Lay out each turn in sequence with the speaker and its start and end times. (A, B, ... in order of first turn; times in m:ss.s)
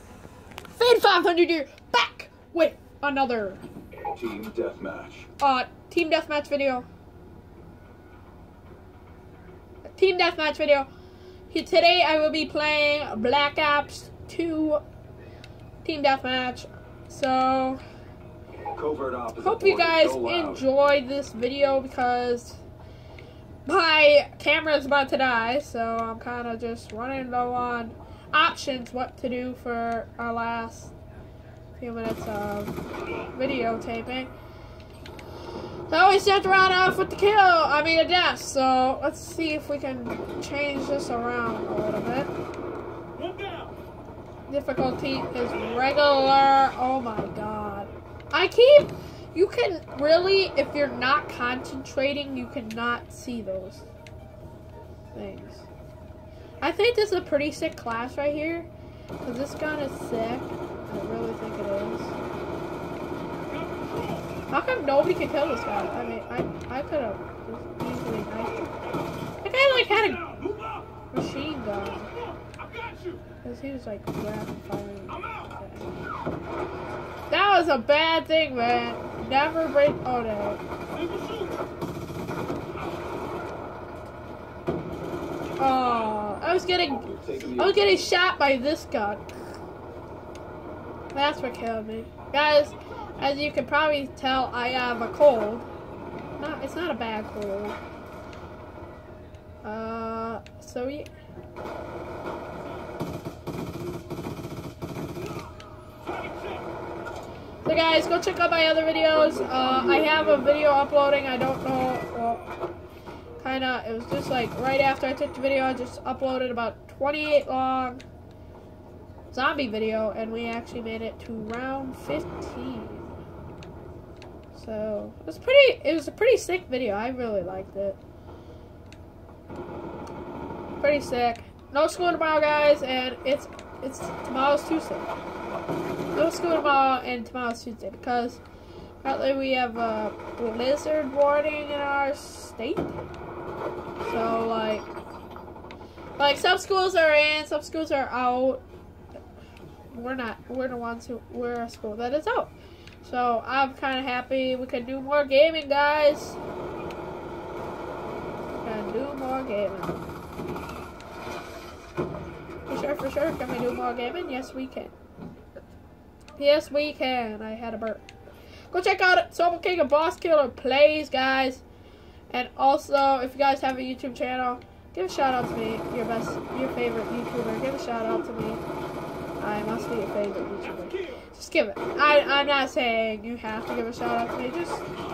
0:00.7-0:03.6 A
0:04.1-0:05.3 B
0:05.4-0:06.9 A
0:10.0-0:10.9 A
0:11.5-0:14.8 A
0:15.8-0:17.8 A
0:18.7-0:20.6 B
0:19.4-0:22.6 A
0:23.7-0:30.9 A
0:31.8-0:34.3 A
0:35.9-0:42.3 A
0:44.5-0:53.9 A
0:55.1-0:55.7 A
0:56.6-0:58.7 A
0:59.2-1:02.2 A
1:04.5-1:08.7 A
1:09.4-1:10.4 A
1:11.1-1:12.1 A
1:13.4-1:15.9 A
1:17.3-1:20.6 A
1:25.6-1:29.2 A
1:27.0-1:28.1 B
1:31.1-1:35.7 A
1:36.4-1:37.8 A
1:39.6-1:41.1 A
1:47.6-1:52.5 A
1:49.1-1:50.6 B
1:53.4-1:58.0 A
1:59.3-2:03.1 A
2:04.5-2:08.0 A
2:10.8-2:15.1 A
2:16.1-2:18.4 A
2:19.0-2:23.0 A
2:24.0-2:24.9 A
2:26.2-2:28.6 A
2:29.9-2:36.4 A
2:38.5-2:40.1 A
2:42.7-2:44.9 A
2:46.4-2:48.0 A
2:48.7-2:51.6 A
2:52.3-2:58.6 A
2:59.4-3:04.9 A